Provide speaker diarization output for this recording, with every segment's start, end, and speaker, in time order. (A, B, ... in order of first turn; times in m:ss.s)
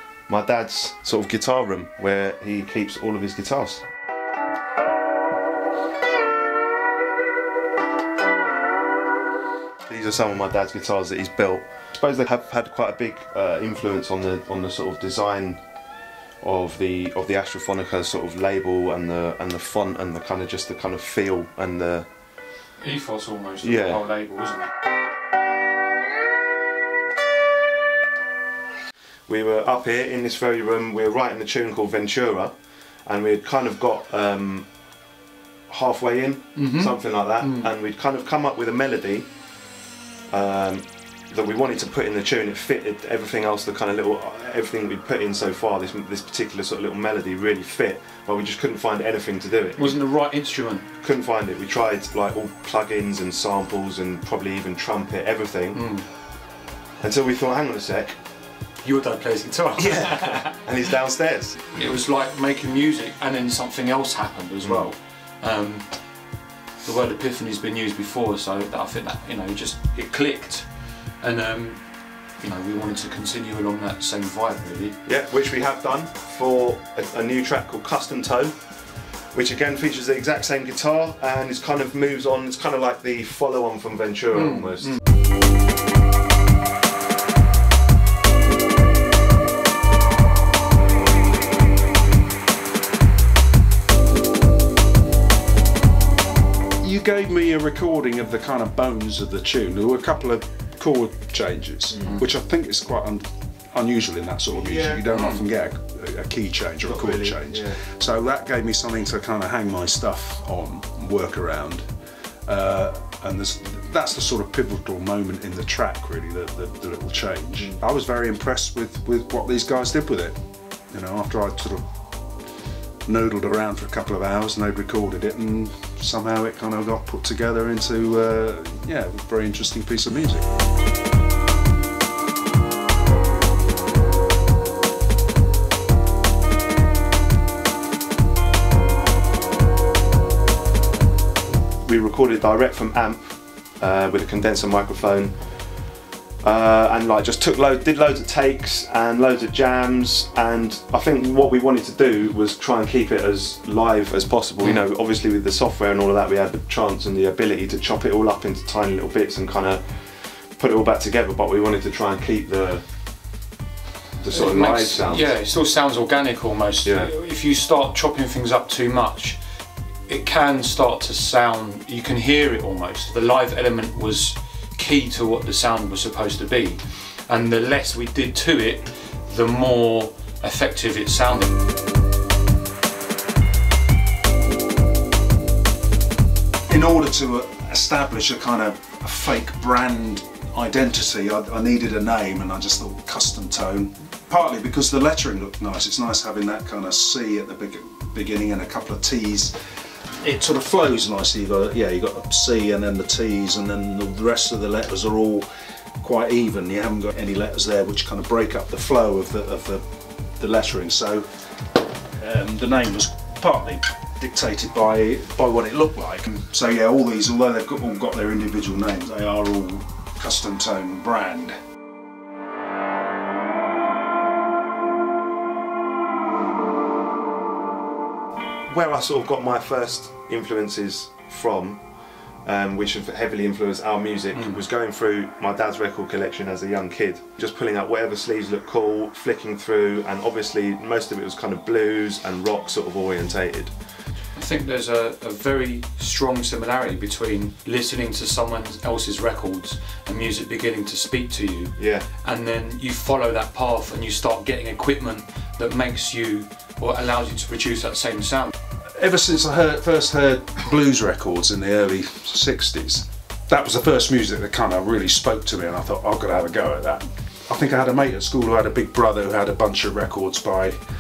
0:00.3-0:03.8 A
0:09.9-0:15.6 A
0:16.4-0:22.1 A
0:22.8-0:24.7 B
0:23.6-0:24.0 A
0:29.3-0:32.6 A
0:33.1-0:34.7 A
0:35.7-0:39.3 A
0:36.6-0:37.7 B
0:40.3-0:49.9 A
0:49.8-0:50.8 B
0:51.0-0:55.8 A
0:55.7-0:56.1 B
0:57.0-0:58.2 A
0:58.8-1:00.6 B
0:59.8-1:01.6 A
1:01.7-1:06.0 B
1:04.6-1:04.9 A
1:06.8-1:15.0 B
1:15.0-1:18.6 A
1:19.3-1:25.0 A
1:24.3-1:25.0 B
1:36.8-1:51.8 C
1:41.9-1:42.2 A
1:44.5-1:45.1 A
1:45.1-1:45.4 B
1:46.8-1:47.8 A
1:52.5-2:00.4 C
1:57.6-1:57.8 A
2:00.9-2:01.9 C
2:03.1-2:10.5 C
2:21.8-2:25.4 A
2:26.4-2:42.8 A
2:44.2-2:45.3 A
2:44.2-2:49.4 B
2:46.8-2:47.1 A
2:50.1-3:01.6 B
3:06.7-3:19.6 C
3:20.2-3:25.5 C
3:26.0-3:29.8 C
3:30.4-3:31.3 C
3:32.2-3:41.6 C
3:48.7-3:51.8 A
3:52.4-4:03.7 A
3:54.3-3:54.6 B
4:04.4-4:18.5 B
4:11.8-4:12.1 A
4:19.0-4:30.8 C